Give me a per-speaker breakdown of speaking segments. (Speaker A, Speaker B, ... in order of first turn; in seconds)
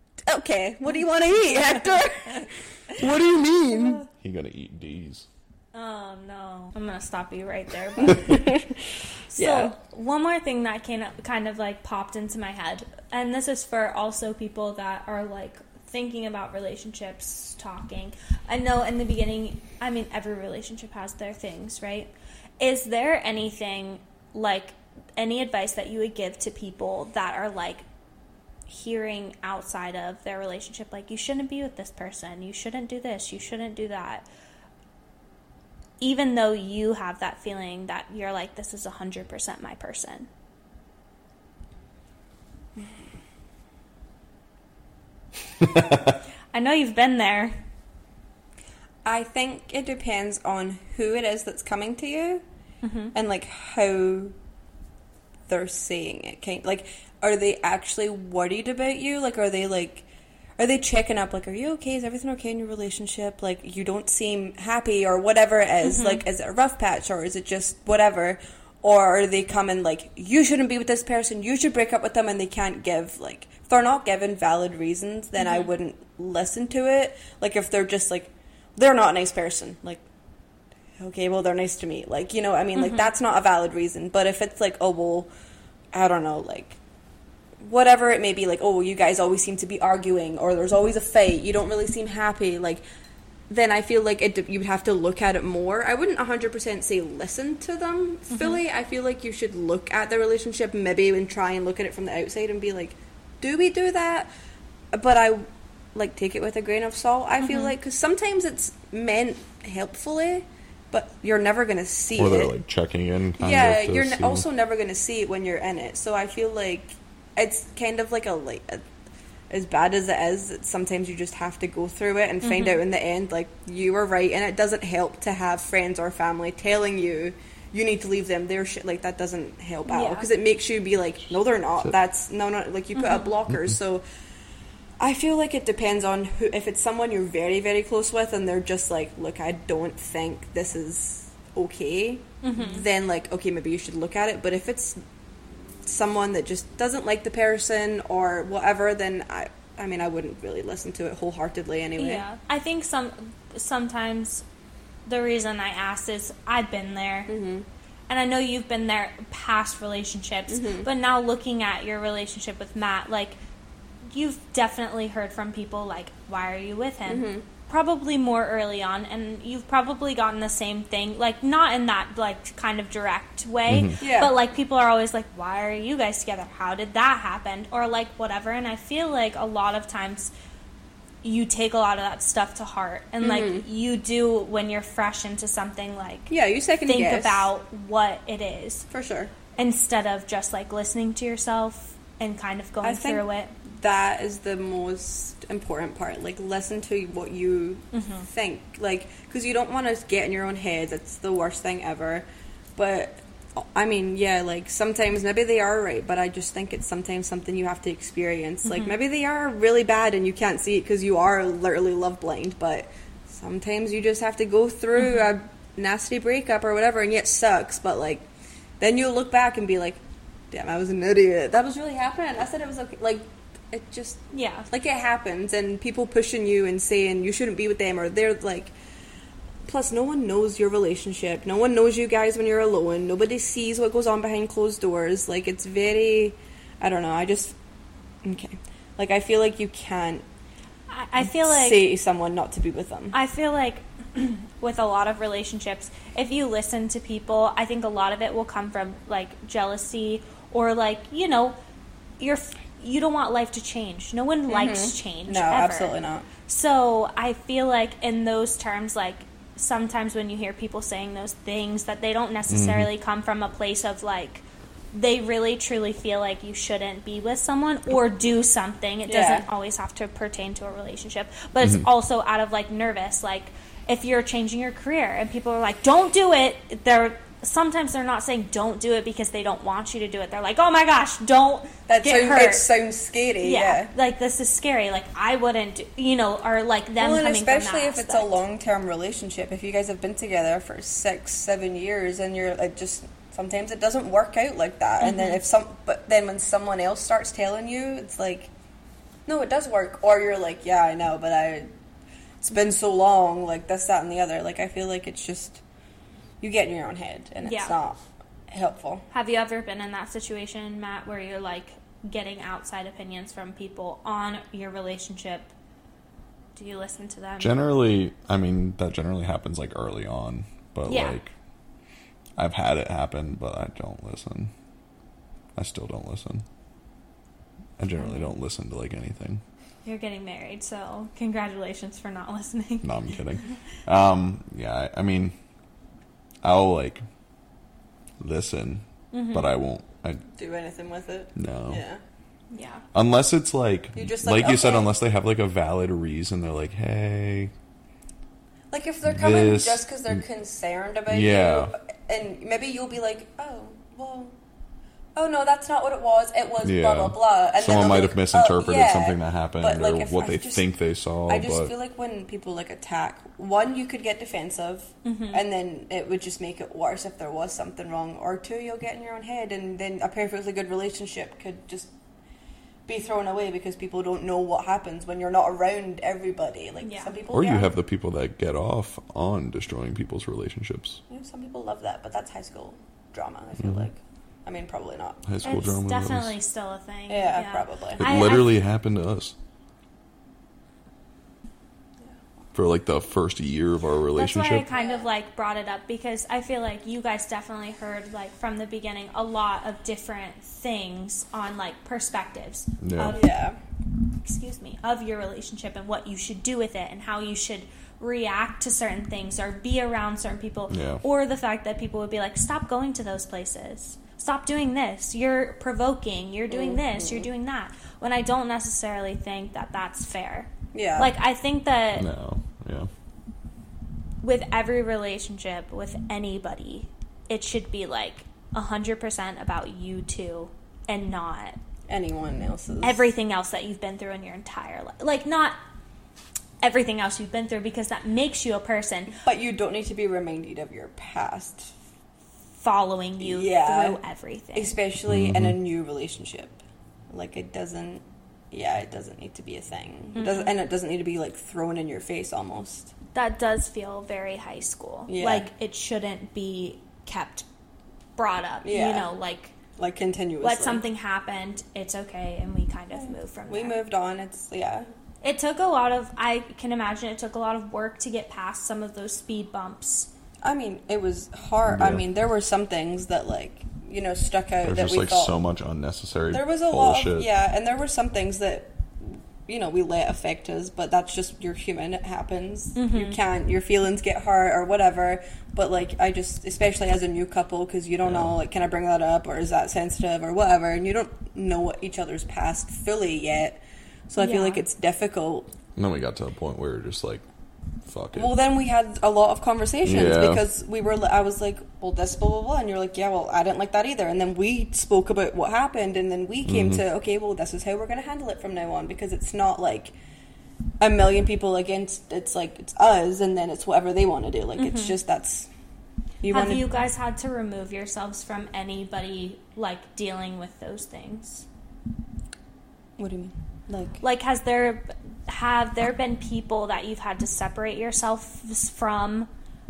Speaker A: 0.2-4.0, 8.0-8.7, 9.3-9.8, 49.0-52.4, 53.1-54.3, 55.5-60.0, 60.6-80.0, 81.0-85.3, 85.9-86.8, 87.6-92.8, 93.5-104.3, 104.9-112.5, 113.4-118.8, 119.5-134.0, 135.0-145.0, 145.8-152.2, 157.3-157.7, 160.5-160.9, 167.1-167.4, 174.0-174.3, 183.2-183.7, 186.3-187.5, 188.9-189.3, 192.8-218.3, 218.8-220.0, 220.5-228.7, 229.7-237.6, 238.2-240.2, 241.2-243.2, 254.5-256.2, 269.1-269.4, 281.9-283.9, 287.0-298.5, 299.3-301.7, 302.4-305.6, 306.4-309.0, 340.3-342.0, 343.9-344.9, 348.7-354.3, 355.1-360.6, 361.3-371.9, 372.9-377.7, 381.1-385.3, 387.1-388.1, 394.7-395.1, 403.1-403.6, 416.5-417.3, 420.7-421.1, 431.9-433.1, 439.1-441.7, 443.2-444.0, 444.5-452.9, 455.1-455.5, 458.6-459.1, 459.8-460.8, 462.9-464.9, 470.4-475.4, 476.3-495.5, 498.1-509.9, 510.8-515.5, 516.2-516.6, 523.0-524.0
Speaker B: 3.7-4.0, 5.7-8.6, 9.3-27.8, 28.7-34.2, 36.0-40.3, 46.5-47.6, 52.8-53.1, 65.8-66.2, 75.4-75.7, 82.8-83.1, 98.3-98.6, 107.4-107.7, 122.4-122.8, 129.9-130.3, 132.9-133.3, 142.4-142.8, 152.0-154.4, 155.1-157.3, 158.1-163.4, 164.1-180.3, 181.2-186.3, 186.8-188.9, 189.6-193.5, 197.9-198.3, 208.7-208.9, 215.0-215.2, 224.3-224.7, 240.9-241.8, 243.1-251.6, 252.2-255.9, 256.5-282.7, 283.4-288.4, 295.0-295.4, 307.4-307.7, 309.1-315.5, 316.6-317.6, 320.9-321.2, 328.0-328.3, 329.8-333.5, 339.1-339.5, 342.5-342.8, 365.0-365.4, 376.8-377.1, 385.4-388.6, 394.1-403.3, 404.2-422.1, 424.2-431.6, 432.8-435.6, 436.6-439.2, 442.6-444.8, 450.1-450.5, 453.1-457.5, 458.1-459.5, 460.4-463.7, 465.2-470.1, 482.8-483.2, 494.2-494.6, 514.6-515.0, 516.3-521.5, 524.0-529.3
Speaker C: 4.1-5.3, 45.6-46.2, 112.2-114.4, 173.7-173.9, 262.5-262.9, 317.4-321.3, 322.4-324.5, 325.5-326.4, 327.8-329.4, 332.8-335.3, 336.4-337.0, 338.2-340.2, 341.4-341.8, 342.9-347.5, 349.1-349.9, 351.1-351.7, 356.6-361.7, 377.3-381.0, 383.6-383.9, 385.2-386.3, 388.0-389.4, 392.5-394.7, 402.8-403.2, 410.7-411.0, 421.9-422.9, 445.1-445.6, 471.7-472.0, 474.6-477.3, 488.0-488.4, 495.8-497.2, 497.8-498.3, 499.8-500.4, 506.4-506.8